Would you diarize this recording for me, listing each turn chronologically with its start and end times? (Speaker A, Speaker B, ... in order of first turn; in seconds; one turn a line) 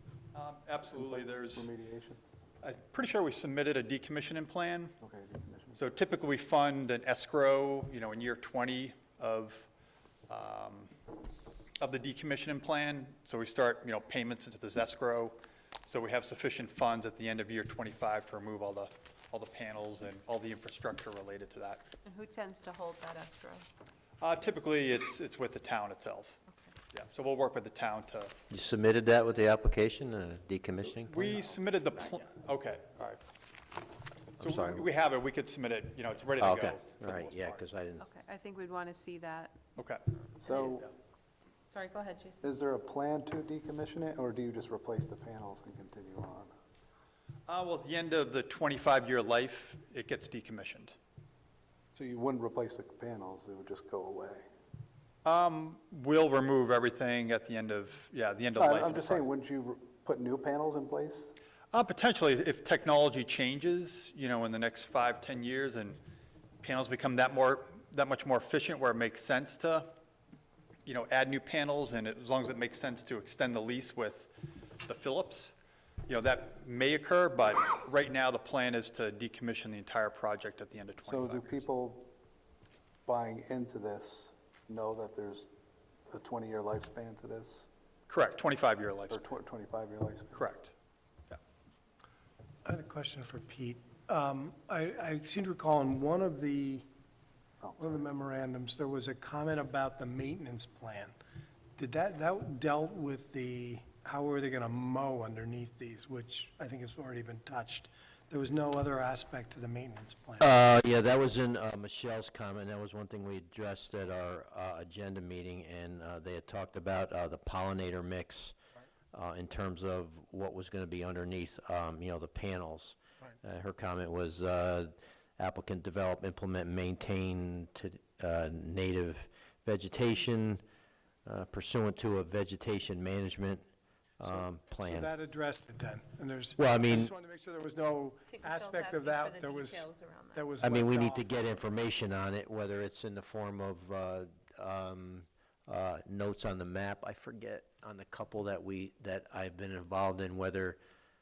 Speaker A: 0.3-1.7
Speaker B: 0.9-2.2
Speaker A: 2.6-5.0
Speaker B: 5.0-5.8
Speaker A: 5.7-9.7
Speaker A: 10.3-10.9
Speaker A: 11.8-15.3
Speaker A: 15.9-21.8
Speaker C: 22.0-23.7
Speaker A: 24.2-26.4
Speaker A: 26.9-28.3
Speaker D: 28.5-31.4
Speaker A: 31.0-33.2
Speaker A: 34.4-37.6
Speaker D: 34.4-34.8
Speaker D: 36.4-38.0
Speaker C: 38.0-39.5
Speaker B: 40.4-40.9
Speaker C: 40.5-40.8
Speaker C: 41.7-42.4
Speaker B: 42.4-46.5
Speaker A: 47.5-51.0
Speaker B: 51.9-54.5
Speaker A: 55.2-59.2
Speaker B: 58.5-61.3
Speaker A: 61.7-66.0
Speaker A: 66.6-69.9
Speaker A: 70.8-74.3
Speaker A: 74.8-75.5
Speaker A: 76.1-81.7
Speaker B: 81.0-82.1
Speaker B: 83.0-85.5
Speaker B: 86.1-87.7
Speaker A: 88.1-89.2
Speaker B: 89.1-90.4
Speaker A: 90.3-90.7
Speaker E: 92.6-96.8
Speaker B: 97.6-98.1
Speaker E: 97.8-101.1
Speaker E: 101.8-110.5
Speaker D: 110.4-118.5
Speaker D: 119.1-130.6
Speaker D: 131.2-133.6
Speaker D: 134.2-135.1
Speaker E: 134.2-141.3
Speaker D: 136.6-137.1
Speaker C: 138.3-140.5
Speaker D: 140.6-150.8